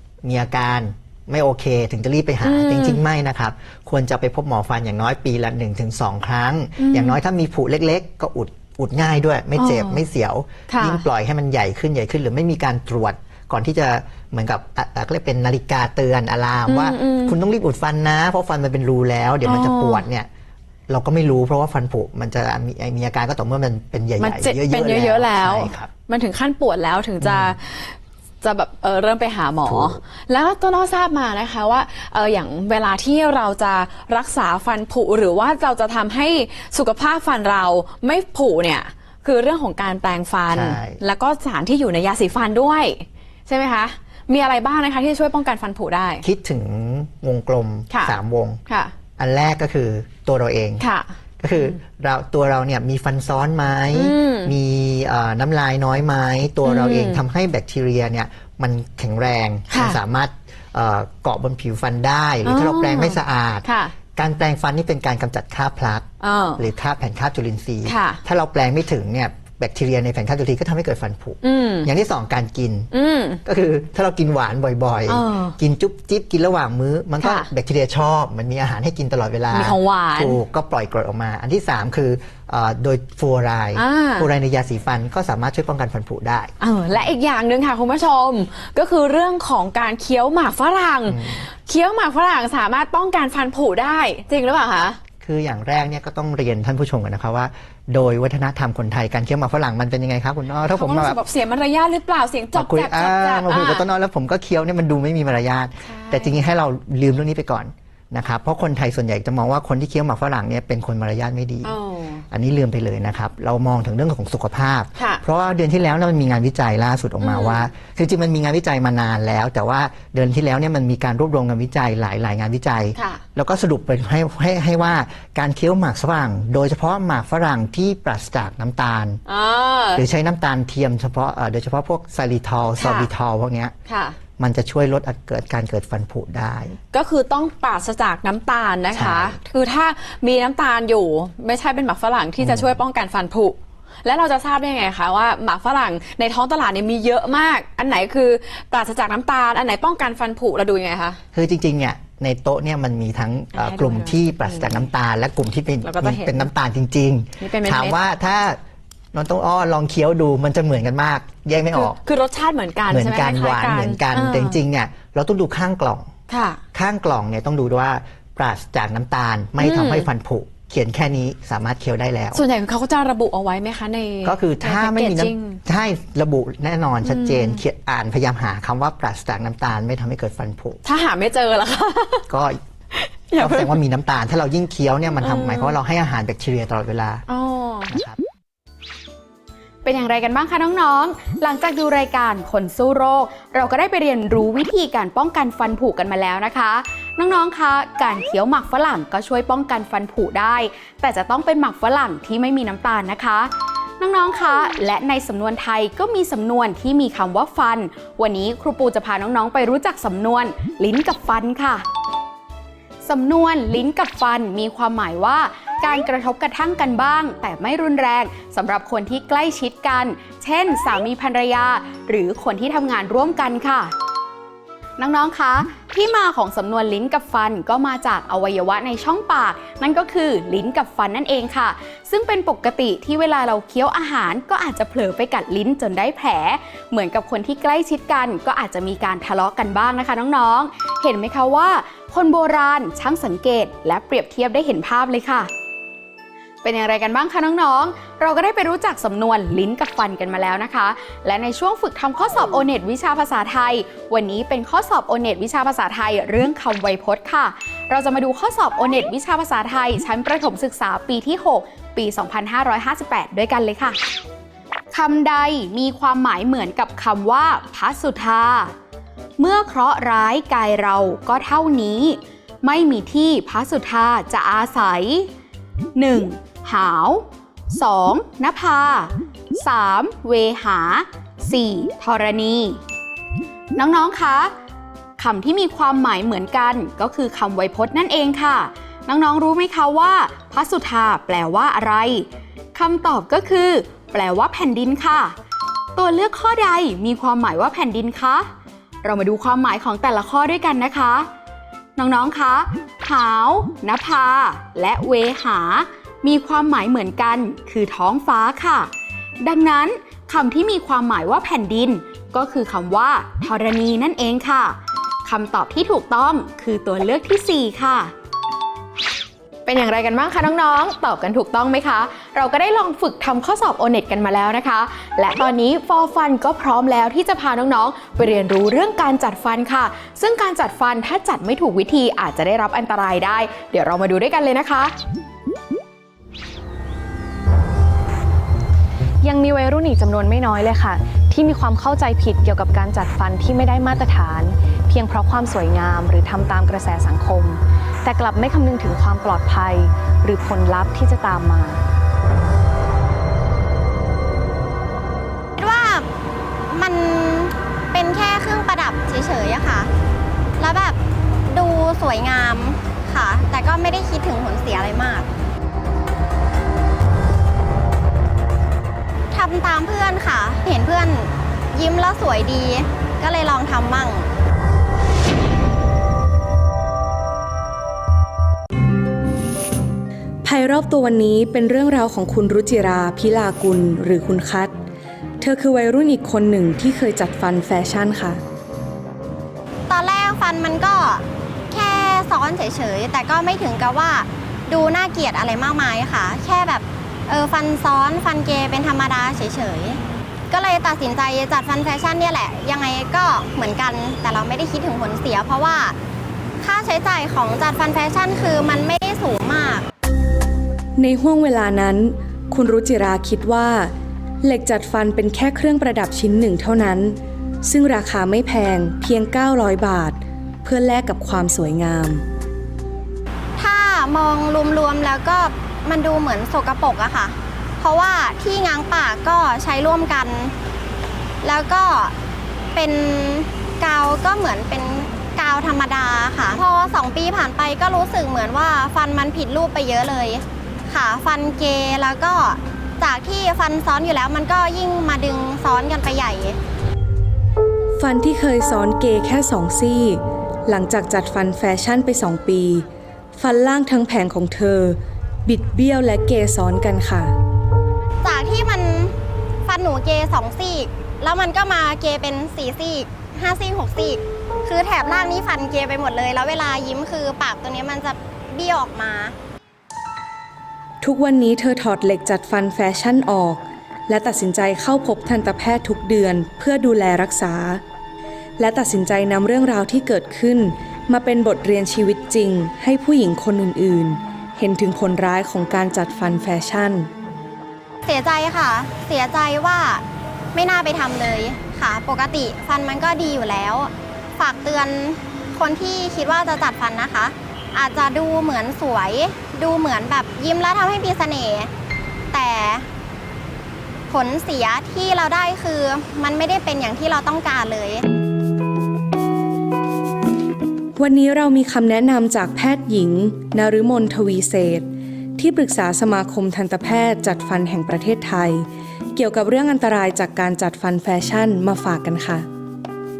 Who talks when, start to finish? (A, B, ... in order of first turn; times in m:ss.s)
0:00.2-0:20.3 A
0:02.4-0:03.0 B
0:06.8-0:07.2 B
0:09.6-0:10.0 B
0:10.7-0:11.0 B
0:16.7-0:17.4 B
0:19.4-0:20.1 B
0:20.9-0:25.9 A
0:24.2-0:46.2 B
0:27.2-0:27.6 A
0:29.7-0:30.0 A
0:40.5-0:41.0 A
0:46.2-0:48.6 A
0:47.9-0:48.2 B
0:49.2-0:50.9 A
0:50.8-0:51.8 B
0:51.4-1:12.9 A
0:53.9-0:54.6 B
0:56.6-0:57.2 B
0:59.7-1:00.0 B
1:02.4-1:03.9 B
1:06.2-1:06.6 B
1:07.8-1:08.2 B
1:11.4-1:11.9 B
1:12.9-1:13.4 B
1:13.4-1:27.1 A
1:15.1-1:15.6 B
1:17.2-1:17.5 B
1:19.5-1:20.4 B
1:23.8-1:24.3 B
1:26.6-1:35.0 B
1:31.1-1:31.5 A
1:35.2-1:41.2 A
1:40.7-1:43.8 B
1:42.5-1:51.8 A
1:45.8-1:46.4 B
1:51.6-1:52.2 B
1:52.3-2:09.2 A
1:55.0-1:55.2 B
1:57.2-1:57.7 B
2:03.0-2:03.2 B
2:09.3-2:10.0 B
2:10.0-2:13.7 A
2:12.8-2:13.1 B
2:13.9-2:14.2 B
2:14.4-2:16.8 A
2:16.9-2:31.2 B
2:18.9-2:19.4 A
2:22.4-2:22.8 A
2:31.3-2:38.6 A
2:33.5-2:34.9 B
2:35.8-2:36.5 B
2:37.4-2:38.0 B
2:39.1-2:42.0 A
2:41.8-2:44.6 B
2:42.9-2:46.1 A
2:46.3-2:46.6 B
2:46.7-2:52.4 A
2:49.6-2:50.1 B
2:52.3-2:55.6 B
2:54.2-3:00.8 A
2:57.0-2:57.6 B
3:00.8-3:02.3 B
3:02.3-3:02.6 A
3:02.9-3:03.8 B
3:03.4-3:07.3 A
3:05.2-3:05.8 B
3:07.3-3:08.0 B
3:07.9-3:08.2 A
3:09.8-3:31.8 C
3:33.0-3:43.9 C
3:45.0-4:05.5 C
4:06.6-4:24.0 C
4:24.9-4:28.7 C
4:29.4-4:35.3 C
4:36.0-4:42.8 C
4:43.8-4:44.6 C
4:45.2-4:55.4 C
4:56.0-4:58.5 C
4:59.0-5:01.3 C
5:02.0-5:18.1 C
5:19.7-5:35.0 C
5:39.2-5:51.8 D
5:55.6-5:56.1 E
5:56.7-5:59.9 E
6:00.6-6:05.3 E
6:09.3-6:14.3 E
6:20.4-6:24.7 F
6:25.4-6:28.4 F
6:29.9-6:46.0 E
6:46.6-6:49.8 E
6:51.0-6:53.9 F
6:54.4-7:02.2 F
7:03.6-7:10.5 E
7:11.4-7:12.1 E
7:12.8-7:26.6 E
7:28.0-7:37.3 F
7:38.2-7:39.1 E
7:39.6-7:49.3 E
7:51.0-7:57.8 F
7:58.6-8:07.1 F
8:08.1-8:10.0 E
8:10.5-8:21.7 E
8:22.3-8:22.9 E
8:24.1-8:28.0 E
8:31.0-8:42.5 F